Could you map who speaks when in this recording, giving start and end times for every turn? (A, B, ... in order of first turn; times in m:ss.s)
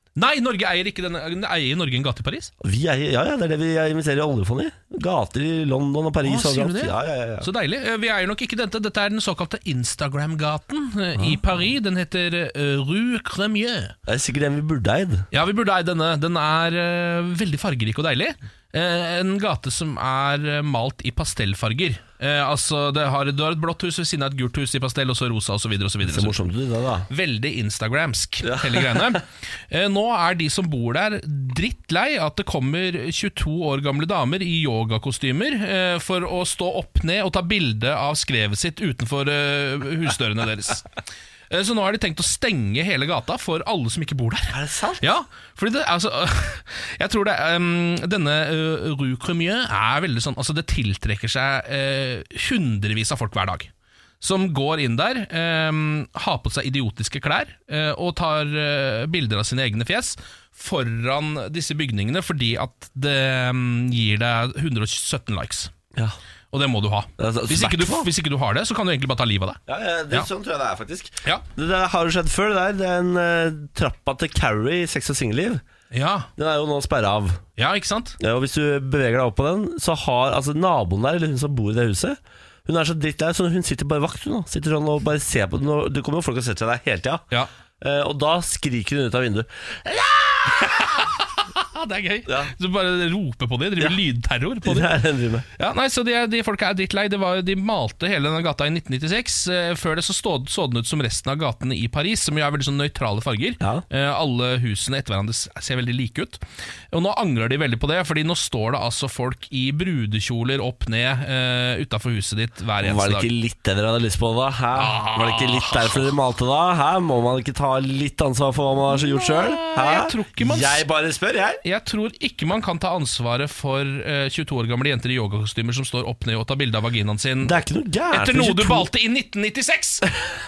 0:00.2-0:02.5 A
0:02.6-0:07.5 B
0:06.2-0:13.9 A
0:14.1-0:15.3 B
0:15.3-0:26.4 A
0:26.0-0:27.1 B
0:27.1-0:40.9 A
0:28.4-0:29.1 B
0:41.5-1:05.7 A
0:44.5-0:45.1 B
1:06.5-1:10.3 A
1:07.2-1:08.1 B
1:09.7-1:15.6 B
1:15.9-1:16.3 A
1:16.4-1:17.4 B
1:17.6-1:18.2 A
1:18.2-1:27.2 B
1:27.8-1:30.8 B
1:30.4-1:34.9 A
1:32.3-1:32.5 B
1:34.6-1:35.4 B
1:35.6-1:53.3 A
1:52.8-2:01.6 B
1:54.7-1:56.1 A
1:58.9-2:00.8 A
2:01.6-2:10.1 A
2:07.4-2:08.9 B